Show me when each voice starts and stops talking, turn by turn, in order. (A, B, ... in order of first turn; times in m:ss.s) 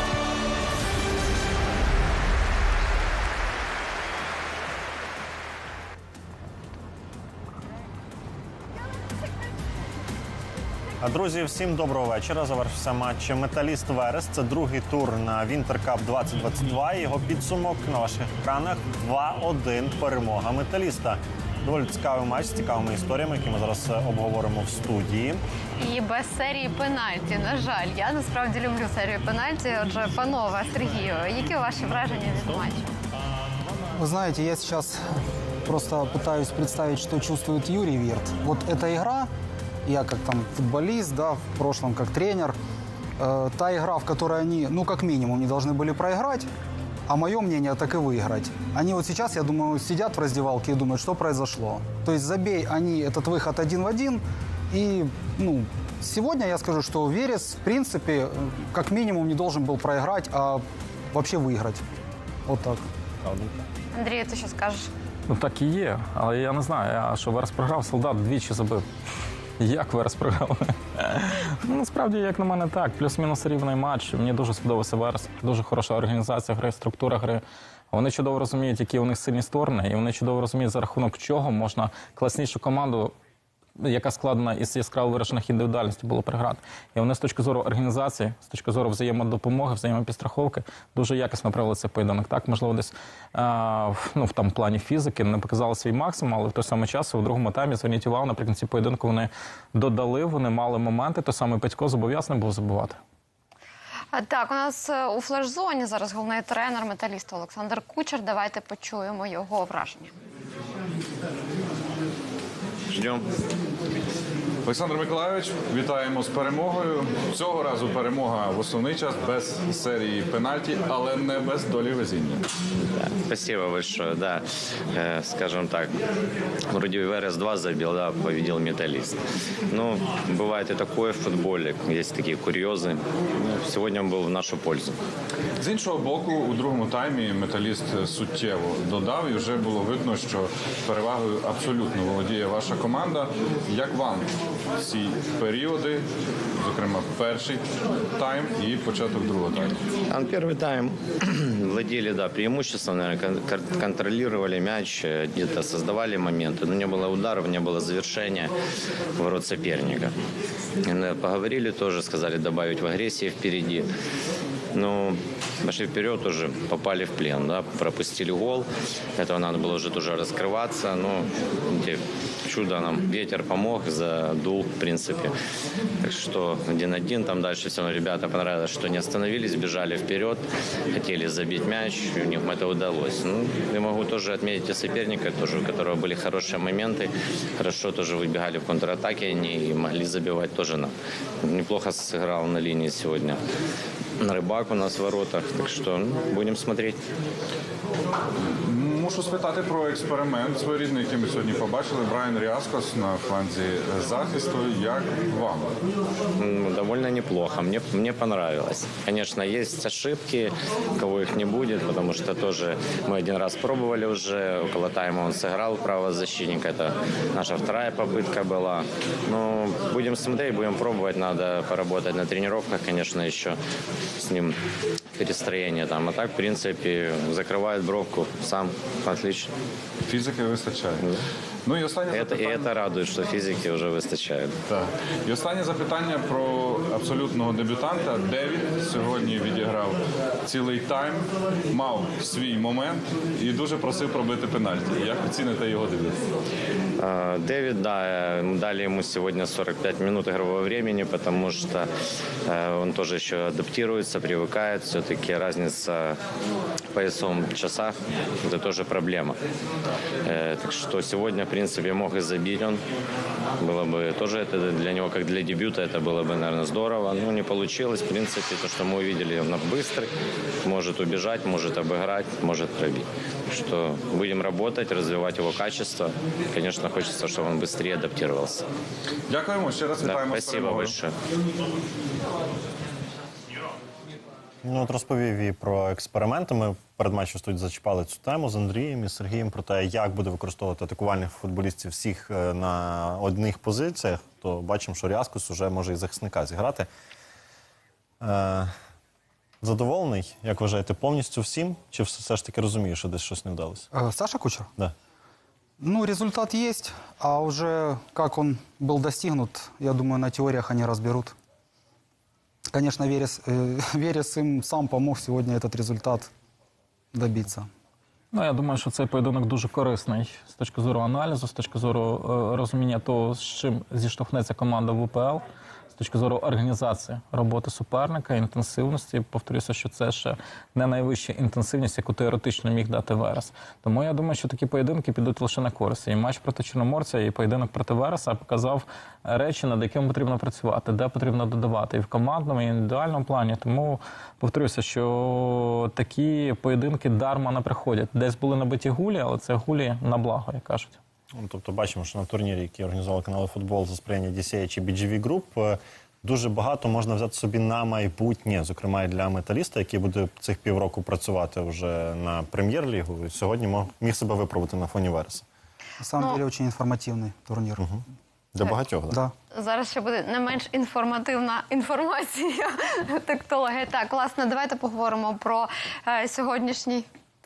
0:11.0-0:25.4 A
0:25.8-0:32.9 B
0:34.0-0:35.0 C
0:35.6-0:39.3 C
0:39.8-0:42.6 C
0:43.2-0:46.5 C
0:47.1-1:01.8 C
1:02.5-1:02.8 C
1:03.2-1:03.5 A
1:03.9-1:04.9 B
1:05.3-1:08.8 D
1:09.6-1:23.1 D
1:23.8-1:43.0 D
1:44.1-1:50.1 B
1:52.9-1:53.2 E
1:54.6-2:02.4 F
2:02.8-2:06.0 E
2:06.7-2:15.0 E
2:15.6-2:26.0 F
2:26.6-2:29.8 F
2:30.1-2:38.5 E
2:39.2-2:40.1 E
2:40.8-2:43.9 E
2:44.7-2:55.4 E
2:56.0-3:13.4 E
3:14.2-3:17.0 E
3:18.6-3:25.8 F
3:26.4-3:43.6 E
3:44.2-3:44.6 E
3:45.2-3:49.5 E
3:50.1-3:51.1 F
3:51.6-3:52.7 F
3:52.1-3:54.6 E
3:54.7-4:06.2 F
4:07.0-4:11.9 E
4:12.5-4:16.2 E
4:16.9-4:19.4 E
4:20.2-4:22.8 E
4:23.6-4:30.1 E
4:30.6-4:38.7 E
4:39.3-4:41.0 F
4:40.0-4:41.1 E
4:44.6-4:56.9 A
4:58.2-4:58.7 A
4:59.6-5:03.9 A
5:03.9-5:04.7 C
5:05.8-5:11.4 C
5:12.7-5:16.3 C
5:17.1-5:17.7 C
5:18.3-5:25.4 D
5:26.0-5:51.0 D
5:51.3-6:05.4 A
6:06.0-6:07.8 C
6:07.8-6:09.2 A
6:09.5-6:17.1 B